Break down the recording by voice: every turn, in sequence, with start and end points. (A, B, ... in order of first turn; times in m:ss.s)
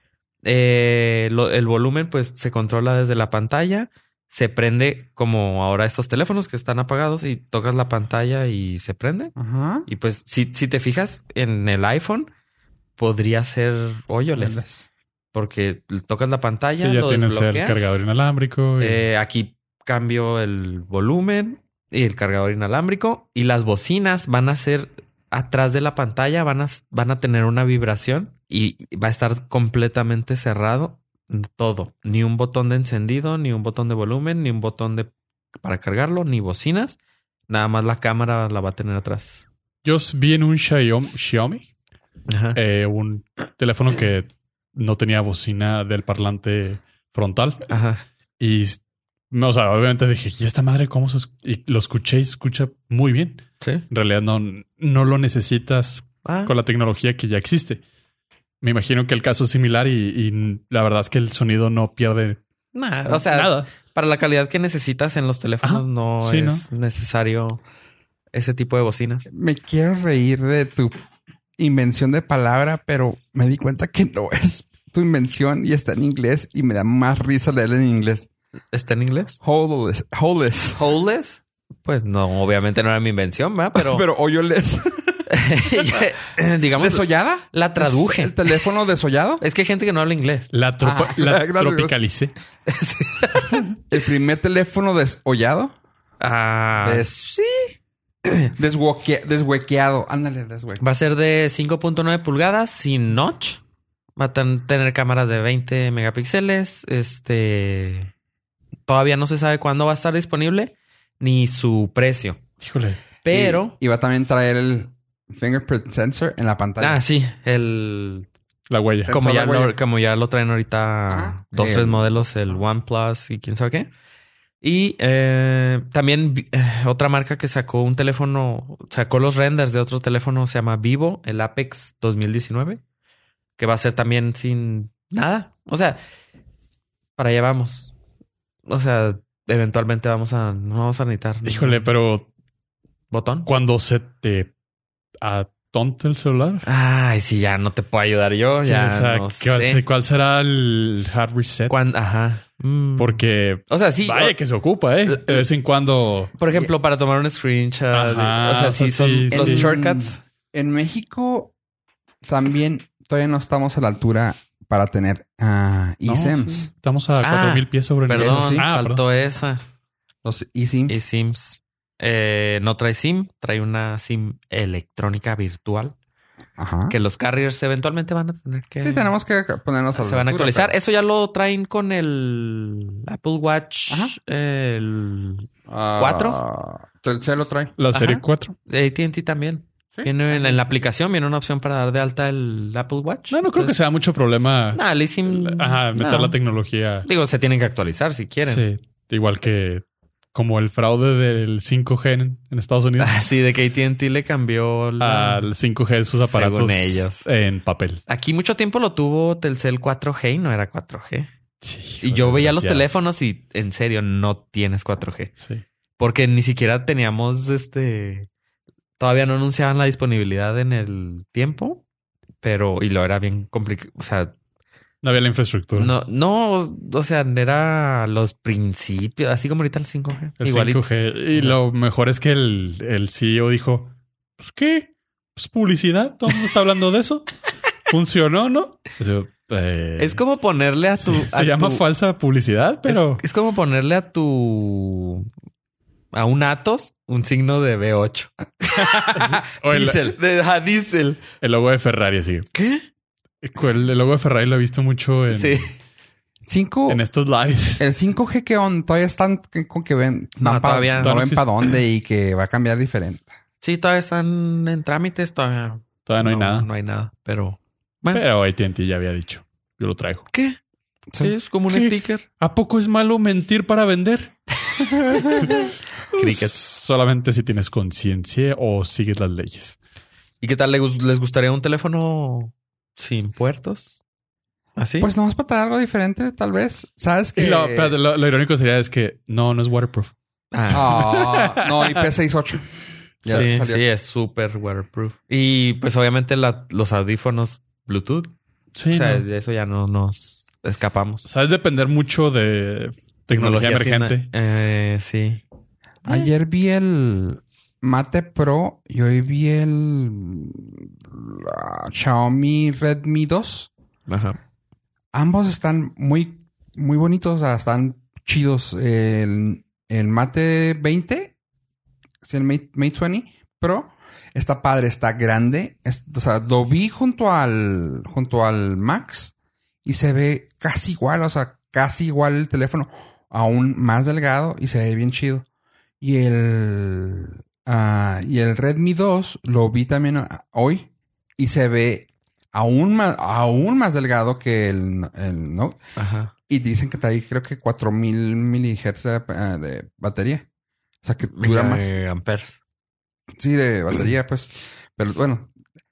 0:00.4-0:09.3 A
0:09.4-0:09.9 B
0:09.9-0:12.3 A
0:13.0-0:14.6 A
0:14.3-0:14.9 B
0:15.3-0:17.8 A
0:16.8-0:19.0 C
0:18.8-0:37.0 A
0:37.5-0:39.4 A
0:39.8-0:41.7 C
0:42.3-0:42.6 A
0:42.5-0:47.7 C
0:47.7-0:48.0 A
0:48.4-0:48.8 C
0:49.3-0:57.8 C
0:53.6-0:53.8 A
0:56.2-0:56.5 A
0:58.6-1:02.4 C
1:02.7-1:07.6 A
1:03.1-1:03.7 C
1:05.6-1:06.6 C
1:08.3-1:09.2 A
1:09.3-1:10.9 B
1:11.6-1:18.3 B
1:18.7-1:19.4 A
1:19.4-1:20.8 B
1:20.8-1:24.0 A
1:23.7-1:26.0 B
1:25.3-1:28.5 A
1:26.8-1:29.4 B
1:29.4-1:30.5 A
1:30.5-1:32.3 C
1:30.8-1:31.9 B
1:32.6-1:33.6 A
1:33.9-1:35.7 B
1:36.2-1:37.1 A
1:36.8-1:37.5 B
1:38.5-1:40.8 B
1:40.8-1:43.6 A
1:44.2-1:48.1 A
1:48.9-1:52.4 A
1:52.6-1:53.0 C
1:53.2-1:53.8 A
1:53.3-1:57.0 B
1:56.8-1:58.3 A
1:58.7-1:59.1 C
1:59.0-1:59.7 B
1:59.1-2:03.9 A
2:01.1-2:02.6 B
2:04.6-2:12.8 A
2:13.6-2:16.0 A
2:17.2-2:17.9 A
2:18.7-2:21.9 A
2:21.4-2:22.3 C
2:23.1-2:23.5 A
2:23.4-2:24.5 C
2:25.2-2:26.6 C
2:26.6-2:29.8 A
2:28.6-2:31.7 C
2:31.7-2:34.4 A
2:33.0-2:36.3 C
2:35.0-2:35.4 A
2:36.4-2:40.2 A
2:37.9-2:39.7 C
2:39.3-2:41.5 B
2:42.2-2:46.7 B
2:46.0-2:49.0 C
2:47.2-2:49.6 A
2:48.1-2:48.6 B
2:50.2-2:50.9 B
2:50.9-2:56.0 A
2:56.6-2:56.9 B
2:56.9-2:59.1 A
2:58.8-3:00.7 B
2:59.9-3:06.4 A
3:03.9-3:04.2 B
3:05.7-3:07.7 B
3:07.8-3:08.5 C
3:07.9-3:13.7 A
3:09.9-3:10.6 B
3:13.3-3:17.1 C
3:14.7-3:16.4 A
3:17.0-3:18.6 A
3:18.4-3:23.2 C
3:23.0-3:25.4 A
3:25.0-3:28.0 C
3:26.3-3:27.3 A
3:28.1-3:31.3 A
3:31.6-3:33.0 C
3:32.0-3:35.3 A
3:36.0-3:38.3 A
3:39.0-3:41.8 A
3:42.4-3:44.3 A
3:45.0-3:45.9 C
3:45.8-3:51.6 A
3:50.4-3:57.3 C
3:57.9-4:00.2 C
4:00.0-4:01.8 A
4:01.0-4:03.2 C
4:02.8-4:05.3 A
4:06.1-4:09.2 A
4:08.7-4:10.2 B
4:09.5-4:10.1 C
4:10.1-4:11.2 A
4:11.4-4:12.5 C
4:12.5-4:12.8 A
4:13.4-4:15.6 C
4:15.3-4:15.7 A
4:16.4-4:17.0 B
4:16.9-4:17.8 C
4:17.8-4:23.3 B
4:20.4-4:21.2 A
4:21.0-4:21.5 C
4:23.6-4:28.2 A
4:26.0-4:26.7 C
4:28.1-4:30.3 C
4:30.3-4:30.6 A
4:31.1-4:31.3 B
4:31.2-4:32.2 A
4:31.7-4:34.5 C
4:35.1-4:36.5 A
4:35.2-4:39.8 C
4:40.4-4:43.9 A
4:44.8-4:45.1 A
4:45.0-4:48.0 B
4:47.4-4:50.1 C
4:50.5-4:51.2 A
4:50.7-4:52.0 C
4:50.7-4:52.7 B
4:53.2-4:53.5 C
4:53.2-4:53.8 B
4:53.3-4:58.3 A
4:58.7-4:59.2 C
4:58.9-5:01.2 A
5:01.2-5:04.3 C
5:03.3-5:05.4 A
5:06.0-5:13.7 B
5:14.1-5:14.4 A
5:15.1-5:21.3 B
5:22.2-5:29.3 B
5:29.8-5:35.4 B
5:36.0-5:45.8 B
5:46.0-5:46.3 A
5:46.5-5:50.4 B
5:51.0-5:51.9 B
5:51.3-5:52.6 A
5:53.4-5:55.5 B